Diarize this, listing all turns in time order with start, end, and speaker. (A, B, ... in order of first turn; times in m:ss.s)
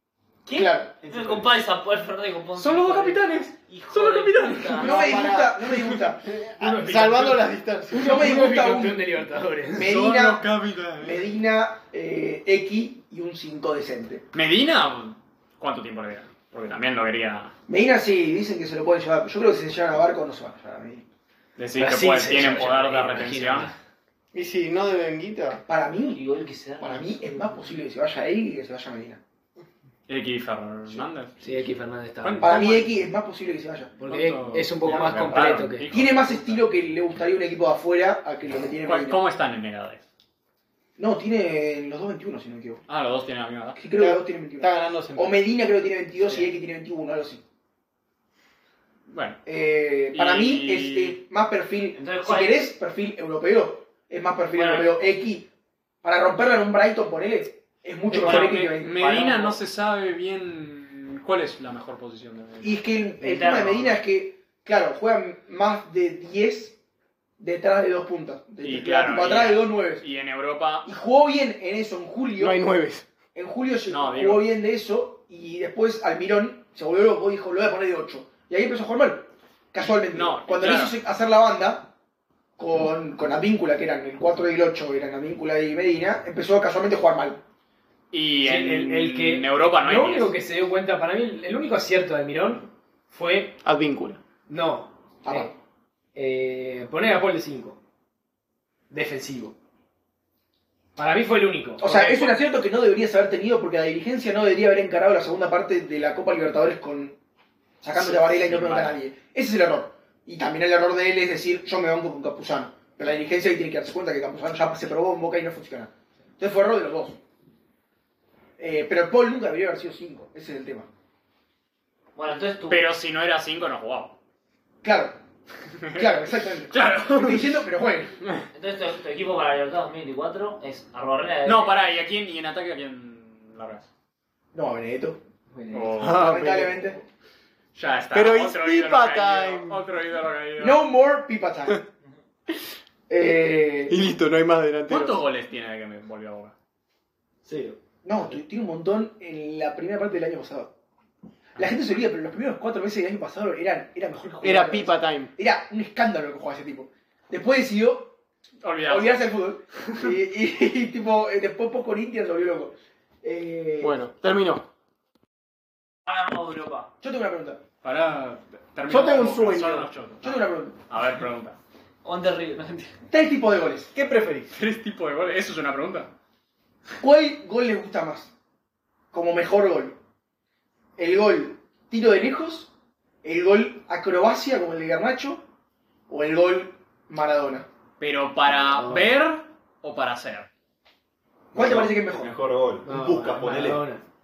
0:00.4-0:05.1 A
0:00.5-0:00.9 B
0:01.0-0:01.6 C
0:02.6-0:05.0 D
0:04.8-0:06.2 B
0:04.8-0:08.5 E
0:06.6-0:09.9 F
0:08.0-0:09.0 B
0:09.7-0:10.5 B
0:09.7-0:11.3 D
0:11.0-0:14.2 B
0:14.3-0:17.5 D
0:17.7-0:21.1 B
0:21.6-0:23.7 D
0:21.8-0:23.7 F
0:24.3-0:25.6 E
0:25.7-0:26.2 B
0:26.1-0:27.3 A
0:26.8-0:29.2 B
0:30.1-0:31.6 D
0:31.4-0:32.6 F
0:32.2-0:33.0 D
0:32.4-0:33.9 B
0:34.0-0:35.9 F
0:34.0-0:36.6 D
0:35.9-0:39.2 B
0:38.8-0:40.0 D
0:41.0-0:42.8 B
0:42.9-0:43.8 D
0:43.8-0:47.4 B
0:43.9-0:45.4 E
0:49.1-0:49.4 D
0:49.4-0:55.5 B
0:50.1-0:51.2 D
0:51.9-0:52.7 A
0:54.5-0:55.0 A
0:56.0-0:59.5 B
0:58.1-1:02.8 D
0:58.2-0:58.6 A
1:02.6-1:06.8 B
1:03.2-1:04.0 A
1:07.4-1:10.0 B
1:08.6-1:10.9 D
1:10.8-1:12.6 B
1:12.4-1:13.1 E
1:13.3-1:21.9 B
1:13.9-1:14.5 D
1:20.1-1:20.9 D
1:22.6-1:27.4 B
1:28.1-1:30.3 D
1:28.4-1:33.6 F
1:33.6-1:34.2 E
1:34.5-1:35.5 F
1:35.2-1:35.5 B
1:36.1-1:37.8 F
1:38.9-1:39.5 F
1:41.0-1:42.4 F
1:41.8-1:47.2 B
1:47.8-1:57.2 B
1:47.9-1:49.0 D
1:58.6-2:00.9 B
2:02.2-2:02.8 A
2:02.7-2:04.2 D
2:04.8-2:05.2 B
2:05.8-2:07.5 D
2:05.9-2:08.2 B
2:08.5-2:11.7 A
2:11.4-2:13.9 D
2:14.5-2:15.2 B
2:15.5-2:16.0 F
2:15.7-2:16.4 D
2:16.0-2:17.0 E
2:16.0-2:17.0 B
2:17.7-2:20.8 D
2:18.1-2:19.8 E
2:20.6-2:21.8 B
2:23.1-2:24.0 B
2:23.9-2:25.2 E
2:24.9-2:26.5 D
2:27.4-2:27.8 F
2:28.0-2:30.7 B
2:31.6-2:38.1 B
2:34.4-2:35.3 E
2:38.6-2:39.2 D
2:38.8-2:44.0 B
2:43.8-2:44.6 E
2:46.0-2:46.9 A
2:47.0-2:47.6 B
2:47.8-2:51.6 D
2:48.9-2:49.9 E
2:50.2-2:50.8 B
2:52.0-2:52.9 A
2:53.1-2:53.9 B
2:53.9-2:54.5 E
2:54.5-2:56.1 D
2:57.0-2:58.3 B
2:59.1-3:00.0 B
3:01.0-3:02.7 B
3:03.2-3:05.4 B
3:06.1-3:07.6 B
3:08.0-3:10.5 D
3:11.5-3:12.4 B
3:11.5-3:13.8 C
3:12.8-3:14.0 F